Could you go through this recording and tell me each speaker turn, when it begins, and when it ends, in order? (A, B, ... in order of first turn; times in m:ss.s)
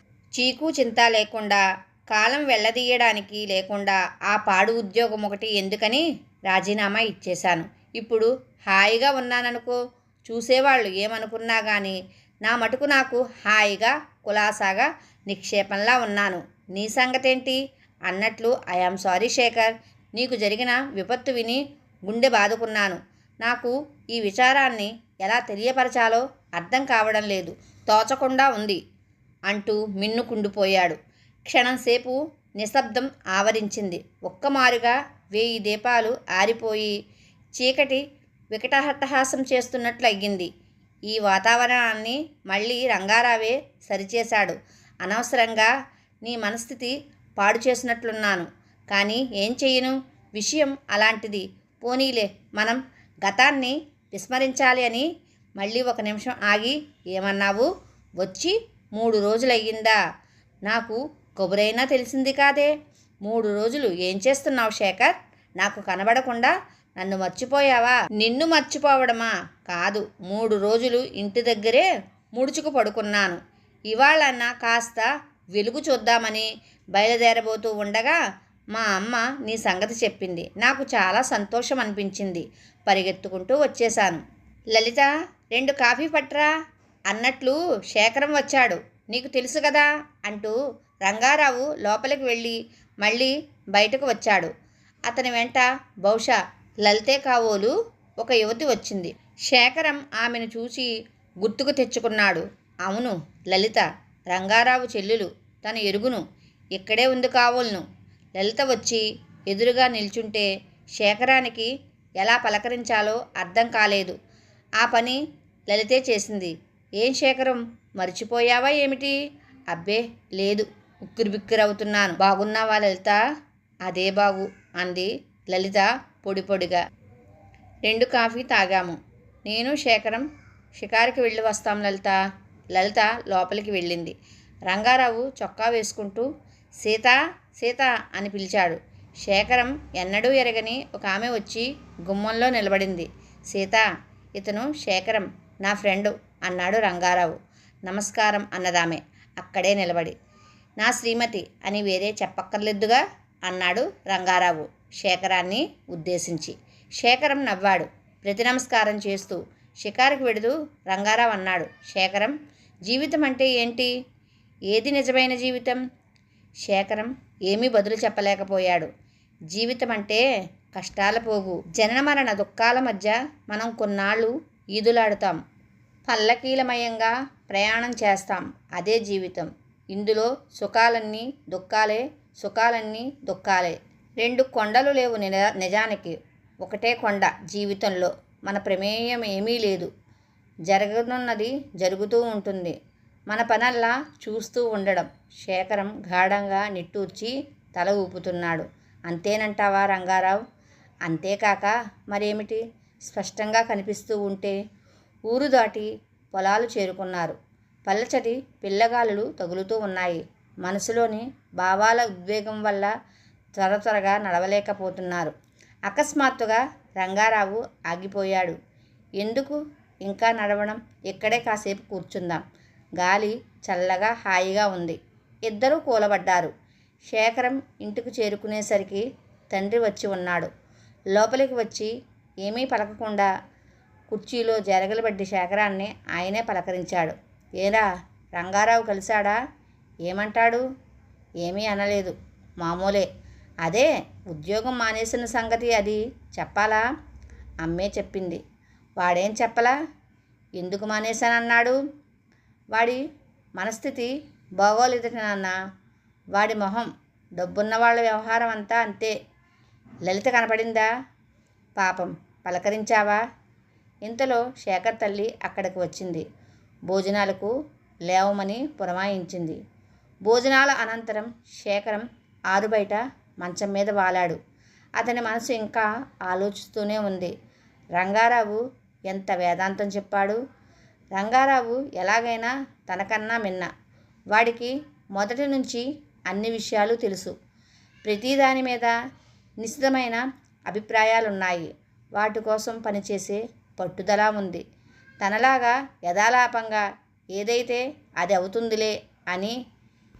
0:00.3-0:28.8 A
0:29.5-0:36.9 A
0:37.6-0:40.5 A
0:41.1-0:45.7 A
0:46.2-0:55.0 A
0:55.6-1:00.0 A
1:00.6-1:02.7 A
1:03.2-1:18.2 A
1:18.7-1:26.5 A
1:27.1-1:34.5 A
1:35.1-1:46.2 A
1:46.7-1:47.8 A
1:48.4-1:54.2 A
1:54.8-1:59.2 A
1:59.7-2:03.2 A
2:03.8-2:06.8 A
2:07.8-2:12.2 A
2:12.7-2:14.1 A
2:14.7-2:16.2 A
2:16.8-2:30.1 A
2:30.8-2:43.9 A
2:44.7-2:45.8 A
2:46.6-2:48.9 A
2:49.5-2:55.4 A
2:56.0-3:09.9 A
3:10.6-3:12.8 A
3:13.3-3:20.4 A
3:21.0-3:24.6 A
3:25.3-3:27.4 A
3:27.9-3:32.9 A
3:33.6-3:35.3 A
3:35.9-3:38.6 A
3:39.2-3:42.4 A
3:43.0-3:46.5 A
3:47.0-3:50.5 A
3:51.1-3:53.3 A
3:54.1-3:59.4 A
4:00.0-4:00.6 A
4:01.4-4:03.1 A
4:03.6-4:06.8 A
4:07.6-4:08.4 A
4:09.0-4:09.8 A
4:10.6-4:11.8 A
4:12.7-4:13.0 A
4:13.6-4:15.5 A
4:16.3-4:19.1 A
4:20.0-4:20.9 A
4:21.8-4:23.2 A
4:24.0-4:26.2 A
4:26.9-4:27.5 A
4:28.1-4:29.6 A
4:30.2-4:34.4 A
4:35.0-4:37.3 A
4:37.9-4:40.4 A
4:41.1-4:43.7 A
4:44.3-4:47.3 A
4:48.0-4:48.9 A
4:49.6-4:54.6 A
4:55.2-4:56.8 A
4:57.3-4:59.6 A